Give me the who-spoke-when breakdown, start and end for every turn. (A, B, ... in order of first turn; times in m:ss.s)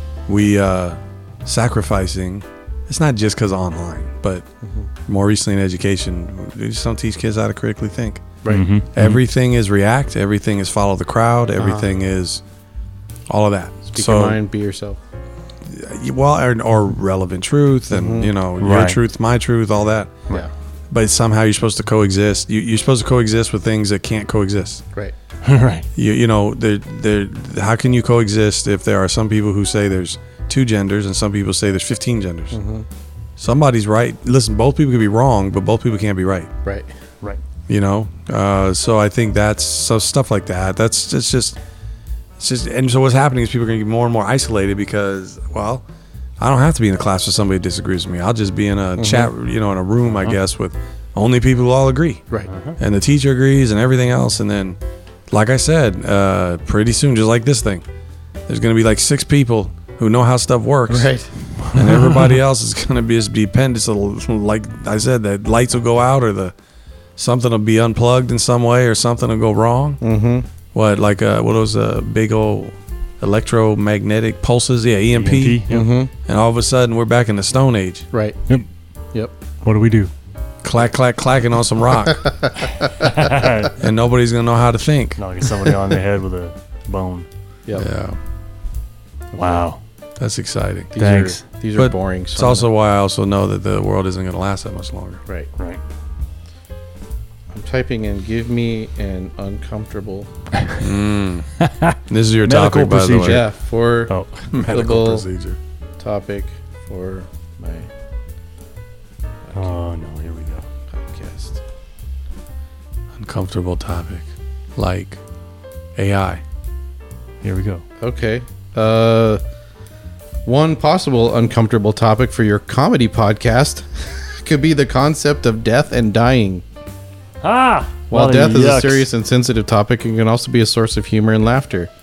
0:00.3-0:04.5 A
0:05.0-0:08.4 A
0:08.5-0:09.2 B
0:08.9-0:12.4 A
0:11.6-0:11.9 C
0:13.3-0:14.4 A
0:13.9-0:15.0 C
0:15.6-0:20.3 A
0:17.9-0:18.3 C
0:18.6-0:19.0 B
0:20.9-0:24.8 A
0:25.4-0:25.9 B
0:25.9-0:32.6 A
0:32.5-0:32.9 C
0:33.4-0:36.5 A
0:37.7-0:41.6 A
0:42.4-0:45.8 A
0:46.4-0:52.2 A
0:49.0-0:49.3 C
0:50.1-0:50.4 B
0:52.5-0:52.8 B
0:52.8-0:54.8 A
0:55.3-0:57.8 A
0:58.5-1:01.1 A
1:00.9-1:01.3 C
1:01.6-1:02.4 B
1:01.7-1:06.5 A
1:07.2-1:10.0 A
1:10.0-1:10.5 C
1:10.7-1:15.6 A
1:15.1-1:15.9 B
1:15.7-1:16.1 C
1:16.2-1:18.1 A
1:18.1-1:19.3 C
1:19.6-1:20.1 B
1:20.6-1:22.3 A
1:22.4-1:22.7 C
1:22.9-1:23.8 B
1:23.8-1:25.2 A
1:25.2-1:27.3 B
1:27.7-1:28.2 A
1:29.3-1:29.6 C
1:29.3-1:29.8 B
1:30.2-1:30.9 A
1:30.9-1:32.7 C
1:31.0-1:31.4 B
1:31.8-1:35.2 A
1:37.5-1:40.3 C
1:40.8-1:41.5 A
1:41.6-1:43.5 B
1:42.1-1:43.4 A
1:43.2-1:45.3 C
1:44.1-1:44.4 B
1:44.5-1:45.6 A
1:46.0-1:47.9 C
1:49.5-1:49.7 C
1:49.5-1:50.6 B
1:50.9-1:51.6 C
1:53.2-1:55.2 A
1:56.0-1:56.4 A
1:57.4-1:57.8 B
1:58.0-1:59.4 C
2:00.4-2:06.6 C
2:07.4-2:09.1 B
2:08.1-2:11.9 C